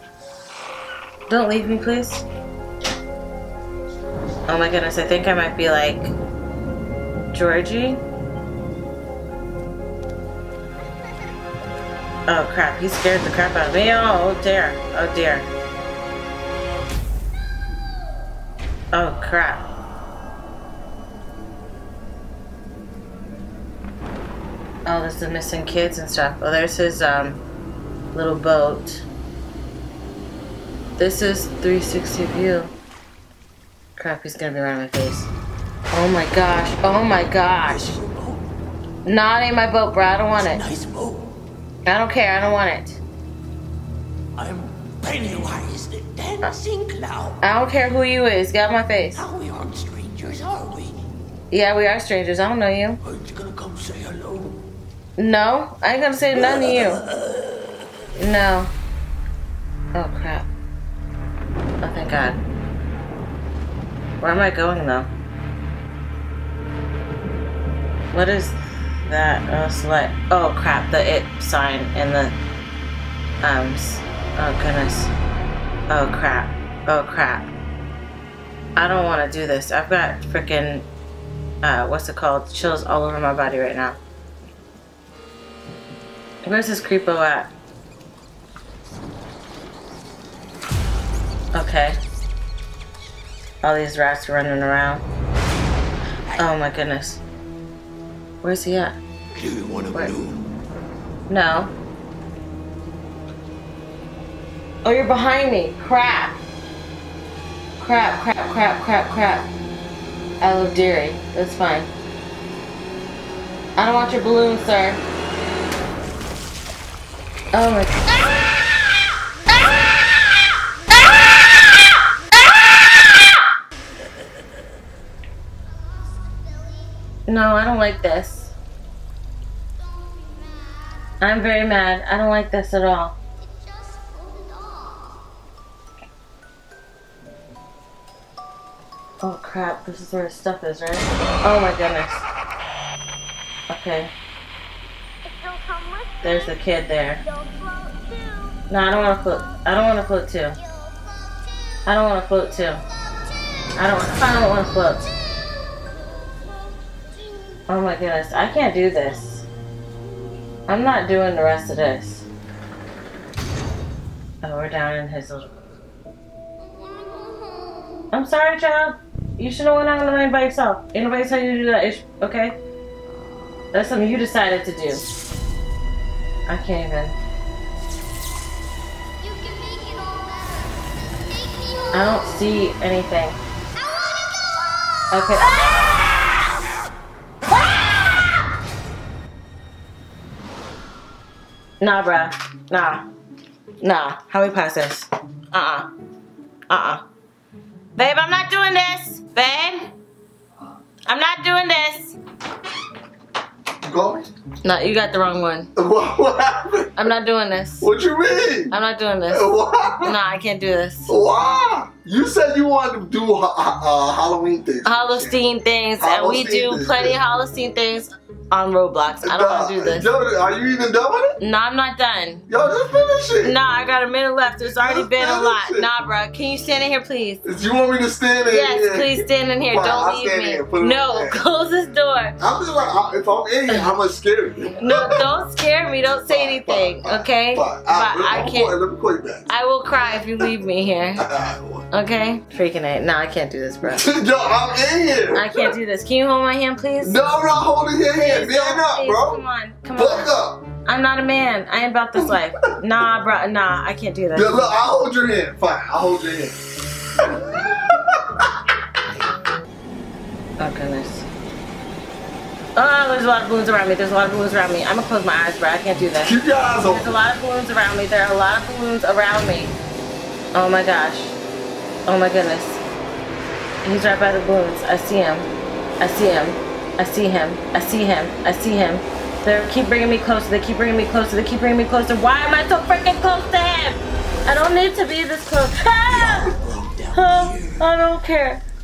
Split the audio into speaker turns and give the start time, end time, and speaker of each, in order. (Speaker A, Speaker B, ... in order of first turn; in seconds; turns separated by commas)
Speaker A: 1.3-2.2, Speaker A: 4.5-6.1, Speaker A: 7.3-8.0, Speaker A: 12.3-15.5, Speaker A: 18.9-19.6, Speaker A: 24.9-27.4, Speaker A: 28.1-29.1, Speaker A: 31.0-32.7, Speaker A: 34.0-35.3, Speaker A: 35.9-37.8, Speaker B: 37.7-38.4, Speaker A: 39.0-40.6, Speaker B: 40.5-41.2, Speaker A: 41.9-43.0, Speaker B: 44.4-47.4, Speaker A: 47.4-49.2, Speaker B: 49.1-51.0, Speaker A: 51.5-53.0, Speaker B: 53.1-54.5, Speaker A: 55.2-57.0, Speaker B: 56.5-57.4, Speaker A: 58.1-58.7, Speaker A: 59.9-60.5, Speaker A: 61.8-62.4, Speaker A: 64.2-65.1, Speaker A: 68.1-72.3, Speaker A: 73.4-75.1, Speaker A: 75.9-77.5, Speaker A: 78.8-80.8, Speaker A: 81.6-84.0, Speaker A: 86.4-87.5, Speaker A: 91.5-92.0, Speaker A: 93.6-95.0, Speaker A: 96.3-97.2, Speaker A: 98.4-99.0, Speaker B: 99.3-100.4, Speaker A: 101.3-101.7, Speaker A: 104.8-106.4, Speaker A: 107.8-109.5, Speaker A: 110.4-111.9, Speaker A: 113.8-115.0, Speaker A: 117.5-118.0, Speaker A: 127.3-128.5, Speaker A: 131.2-133.2, Speaker A: 139.2-142.3, Speaker A: 143.7-144.1, Speaker A: 146.2-147.2, Speaker A: 148.7-150.6, Speaker A: 151.8-152.8, Speaker A: 153.8-155.1, Speaker A: 157.7-159.5, Speaker A: 160.7-162.3, Speaker A: 164.4-165.5, Speaker A: 168.1-172.6, Speaker A: 173.7-175.0, Speaker A: 176.5-177.1, Speaker A: 181.9-183.4, Speaker A: 185.1-185.7, Speaker A: 191.8-193.0, Speaker A: 193.8-195.9, Speaker A: 196.7-197.0, Speaker A: 197.9-199.9, Speaker A: 201.1-202.2, Speaker C: 203.8-204.3, Speaker A: 204.6-205.7, Speaker C: 205.8-207.0, Speaker A: 206.9-207.9, Speaker C: 207.8-208.7, Speaker A: 208.7-211.1, Speaker C: 209.3-210.2, Speaker C: 211.1-215.4, Speaker A: 214.8-220.1, Speaker C: 216.0-217.2, Speaker C: 219.2-221.4, Speaker A: 221.4-222.4, Speaker C: 222.5-223.5, Speaker A: 223.4-227.4, Speaker C: 224.7-225.9, Speaker C: 227.4-231.4, Speaker A: 228.5-232.3, Speaker C: 232.4-235.2, Speaker A: 233.7-233.9, Speaker A: 234.8-238.8, Speaker C: 236.3-239.5, Speaker A: 239.5-241.3, Speaker C: 241.2-241.8, Speaker A: 241.9-244.1, Speaker C: 243.8-245.8, Speaker A: 245.3-247.2, Speaker C: 247.0-249.4, Speaker A: 248.2-250.3, Speaker C: 249.9-250.6, Speaker A: 250.8-254.6, Speaker C: 254.3-256.6, Speaker C: 257.2-258.7, Speaker A: 260.6-261.3, Speaker A: 262.8-269.7, Speaker C: 266.2-267.1, Speaker A: 270.5-271.4, Speaker A: 272.1-272.8, Speaker A: 273.8-275.5, Speaker A: 276.0-286.5, Speaker B: 286.1-287.8, Speaker A: 287.1-288.6